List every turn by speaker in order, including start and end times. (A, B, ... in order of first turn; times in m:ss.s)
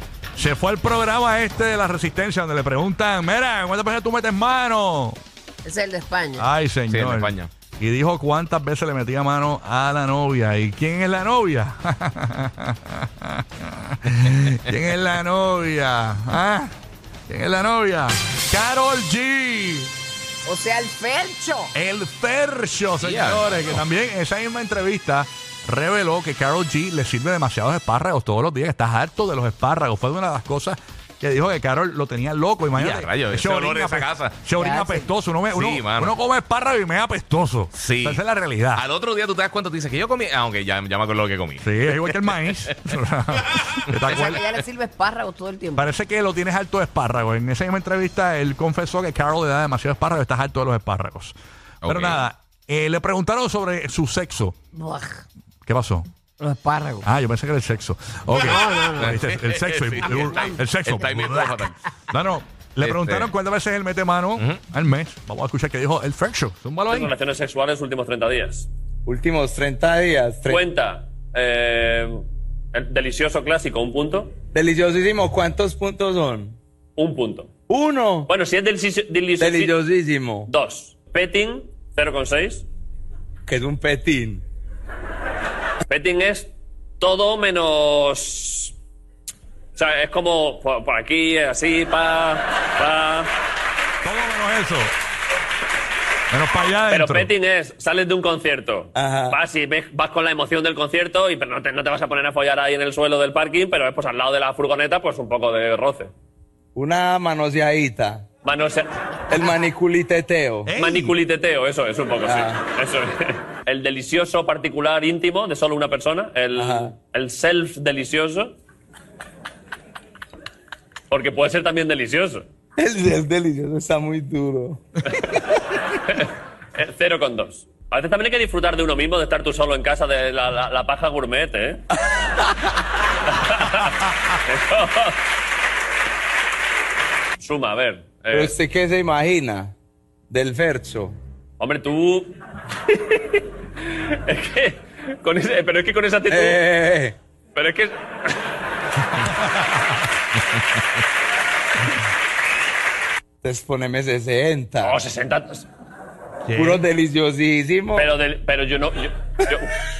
0:00.4-0:05.2 A
0:05.6-0:06.5 B
0:06.4-0:16.7 A
0:06.9-0:07.5 C
0:17.3-0:19.9 A
0:20.4-0:21.7 B
0:21.7-0:38.8 A
0:23.0-0:23.8 C
0:32.7-0:34.5 C
0:34.5-0:35.1 B
0:35.5-0:36.2 C
0:37.7-0:38.2 C
0:38.7-0:42.7 C
0:41.6-0:44.4 A
0:44.1-0:45.9 B
0:45.8-0:54.5 A
0:51.8-0:52.3 C
0:54.7-0:55.2 B
0:55.6-0:56.1 A
0:56.4-0:57.0 B
0:57.0-1:07.1 A
0:58.3-0:59.2 B
0:59.0-1:01.7 C
1:00.0-1:00.5 B
1:02.8-1:03.3 C
1:06.9-1:08.7 D
1:09.0-1:10.6 E
1:10.4-1:14.3 D
1:14.5-1:16.6 E
1:17.0-1:17.5 D
1:17.7-1:18.3 E
1:18.3-1:19.8 D
1:19.4-1:20.5 E
1:20.5-1:22.6 D
1:23.5-1:24.4 E
1:25.9-1:26.5 D
1:27.0-1:28.7 D
1:29.8-1:33.3 D
1:34.0-1:34.9 A
1:36.3-1:37.3 A
1:36.9-1:46.1 D
1:38.9-1:39.4 E
1:46.7-1:48.2 E
1:48.4-1:48.9 D
1:49.3-1:50.7 E
1:50.6-1:51.1 A
1:50.8-1:58.5 D
1:52.2-1:52.6 E
1:56.6-1:56.9 E
2:01.1-2:02.4 D
2:02.8-2:04.8 E
2:06.0-2:11.8 D
2:13.3-2:15.2 D
2:17.4-2:18.5 D
2:18.3-2:19.7 E
2:20.3-2:21.2 E
2:21.6-2:22.3 D
2:22.9-2:26.6 D
2:26.3-2:27.2 E
2:27.5-2:28.4 D
2:33.4-2:35.0 E
2:34.8-2:35.7 D
2:36.4-2:36.8 A
2:36.5-2:38.1 E
2:37.9-2:39.7 D